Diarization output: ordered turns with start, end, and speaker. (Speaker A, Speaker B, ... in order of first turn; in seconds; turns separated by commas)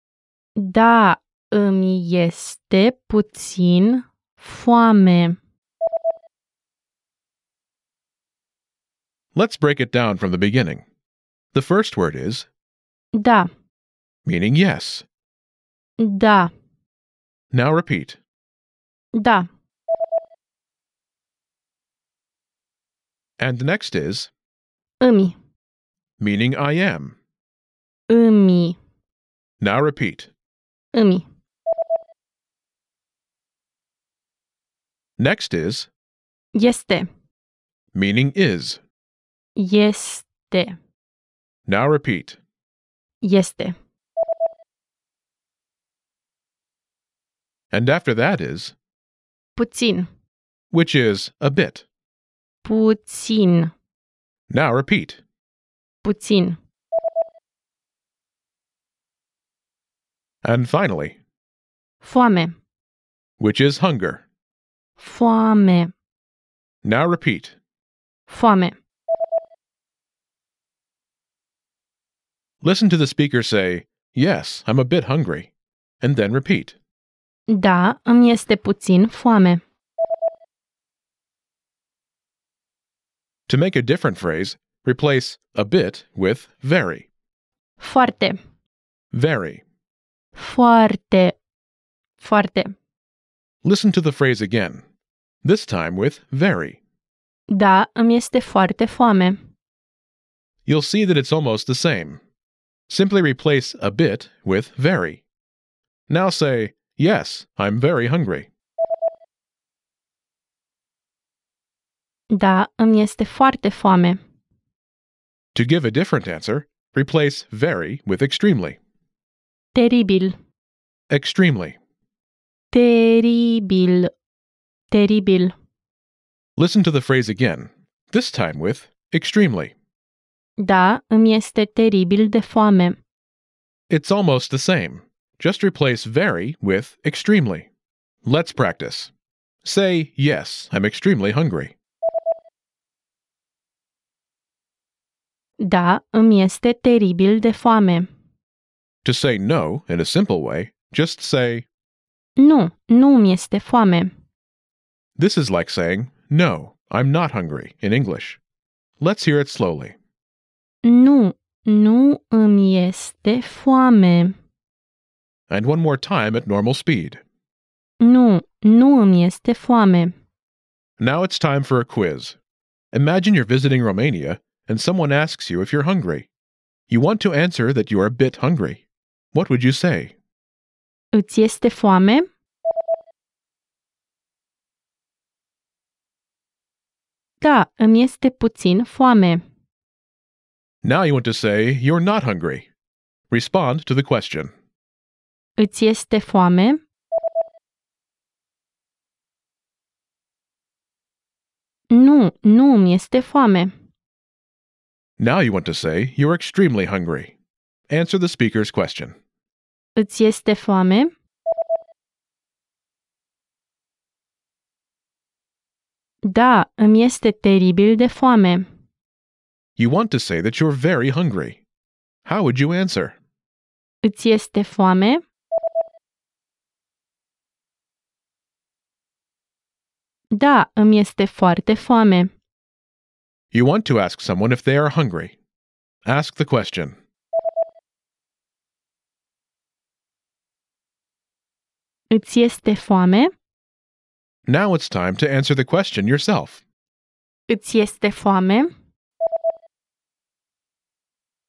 Speaker A: 0.6-5.4, Speaker B: 9.3-10.8, Speaker B: 11.5-12.5, Speaker A: 13.1-13.5, Speaker B: 14.2-15.1, Speaker A: 16.0-16.5, Speaker B: 17.5-18.2, Speaker A: 19.1-19.5, Speaker B: 23.4-24.3, Speaker A: 25.0-25.3, Speaker B: 26.2-27.2, Speaker A: 28.1-28.8, Speaker B: 29.6-30.3, Speaker A: 30.9-31.2, Speaker B: 35.2-35.9, Speaker A: 36.5-37.1, Speaker B: 37.9-38.8, Speaker A: 39.5-40.8, Speaker B: 41.7-42.4, Speaker A: 43.2-43.8, Speaker B: 47.7-48.8, Speaker A: 49.5-50.1, Speaker B: 50.7-51.9, Speaker A: 52.6-53.7, Speaker B: 54.5-55.2, Speaker A: 56.0-56.6, Speaker B: 60.4-61.2, Speaker A: 62.0-62.5, Speaker B: 63.4-64.2, Speaker A: 65.0-65.9, Speaker B: 66.8-67.5, Speaker A: 68.3-68.8, Speaker B: 72.6-76.8, Speaker A: 77.5-79.6, Speaker B: 83.5-87.1, Speaker A: 87.8-88.4, Speaker B: 89.1-89.6, Speaker A: 90.3-91.4, Speaker A: 92.2-92.7, Speaker B: 93.6-94.8, Speaker B: 95.4-96.8, Speaker A: 97.5-99.4, Speaker B: 100.7-102.2, Speaker B: 102.9-105.2, Speaker B: 106.1-108.5, Speaker A: 112.3-114.2, Speaker B: 115.5-118.8, Speaker A: 119.7-120.3, Speaker B: 121.1-121.8, Speaker A: 122.7-124.1, Speaker A: 124.9-125.5, Speaker B: 126.6-129.7, Speaker A: 130.6-133.0, Speaker B: 133.9-137.7, Speaker B: 138.2-139.1, Speaker B: 139.6-141.7, Speaker A: 145.6-148.1, Speaker B: 149.0-151.7, Speaker A: 152.4-154.1, Speaker B: 155.2-158.4, Speaker B: 159.0-160.0, Speaker A: 160.8-164.3, Speaker B: 165.5-167.2, Speaker A: 168.0-170.1, Speaker B: 171.0-172.4, Speaker B: 172.9-176.3, Speaker B: 176.9-180.2, Speaker A: 181.1-182.2, Speaker A: 187.4-189.4, Speaker B: 190.8-192.7, Speaker B: 193.3-194.5, Speaker A: 195.6-196.8, Speaker A: 201.9-203.7, Speaker B: 205.2-207.3, Speaker B: 207.9-209.2, Speaker A: 210.0-211.1, Speaker A: 216.2-218.7, Speaker B: 219.8-221.6, Speaker B: 222.2-223.2, Speaker A: 224.0-225.2, Speaker A: 230.3-232.3, Speaker B: 233.5-235.3, Speaker B: 236.0-237.0, Speaker A: 242.1-243.3, Speaker B: 244.5-246.6, Speaker A: 247.5-248.7